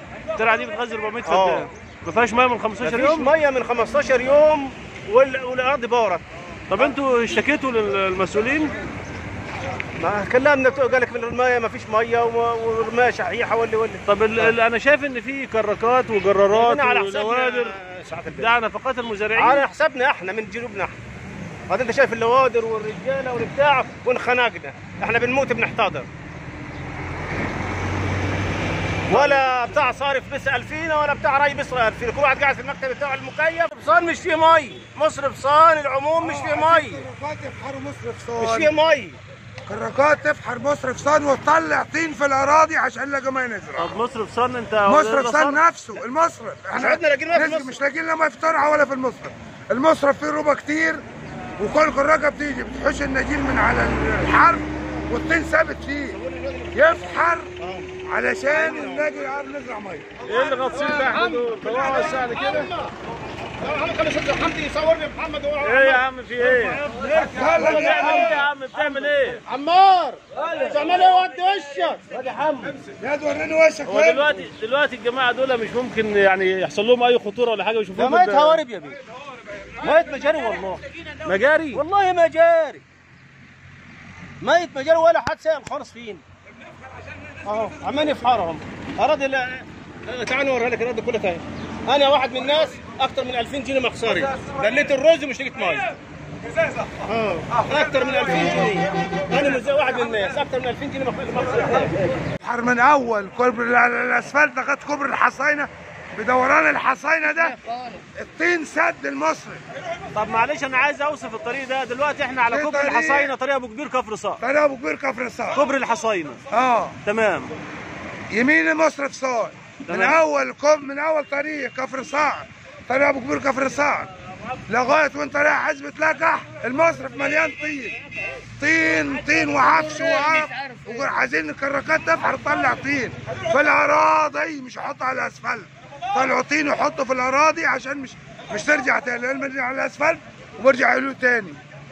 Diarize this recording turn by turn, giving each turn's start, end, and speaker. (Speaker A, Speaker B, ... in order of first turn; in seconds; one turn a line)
Speaker A: 0.3-3.3
Speaker B: 1.2-1.7
Speaker B: 2.8-6.2
Speaker A: 6.7-8.7
Speaker B: 10.0-14.5
Speaker A: 14.1-17.8
Speaker B: 16.5-18.5
Speaker A: 18.4-19.7
Speaker B: 19.3-21.0
Speaker B: 21.7-26.1
Speaker B: 29.1-37.0
Speaker C: 36.2-38.7
Speaker B: 38.4-39.2
Speaker C: 39.7-44.0
Speaker A: 43.8-45.6
Speaker C: 44.8-51.0
Speaker B: 46.7-47.8
Speaker C: 51.6-56.2
Speaker B: 56.1-57.9
Speaker C: 56.7-57.5
Speaker C: 58.1-60.1
Speaker B: 58.5-59.1
Speaker A: 60.2-62.7
Speaker B: 60.2-62.9
Speaker B: 63.6-72.1
Speaker A: 65.6-66.8
Speaker C: 67.2-68.4
Speaker A: 67.5-69.4
Speaker A: 72.1-72.8
Speaker C: 73.0-74.4
Speaker A: 73.8-78.6
Speaker B: 78.0-79.0
Speaker B: 79.8-80.8
Speaker A: 81.2-81.8
Speaker B: 81.7-82.8
Speaker B: 84.4-86.2
Speaker B: 87.4-95.9
Speaker B: 97.0-102.0
Speaker C: 102.4-107.6
Speaker C: 108.2-109.6
Speaker A: 110.1-114.4
Speaker C: 112.5-113.3
Speaker C: 114.4-115.6
Speaker A: 115.5-116.4
Speaker C: 116.5-117.0
Speaker A: 117.0-117.5
Speaker C: 118.3-124.1
Speaker A: 119.9-120.2
Speaker C: 124.7-128.0
Speaker C: 128.6-141.6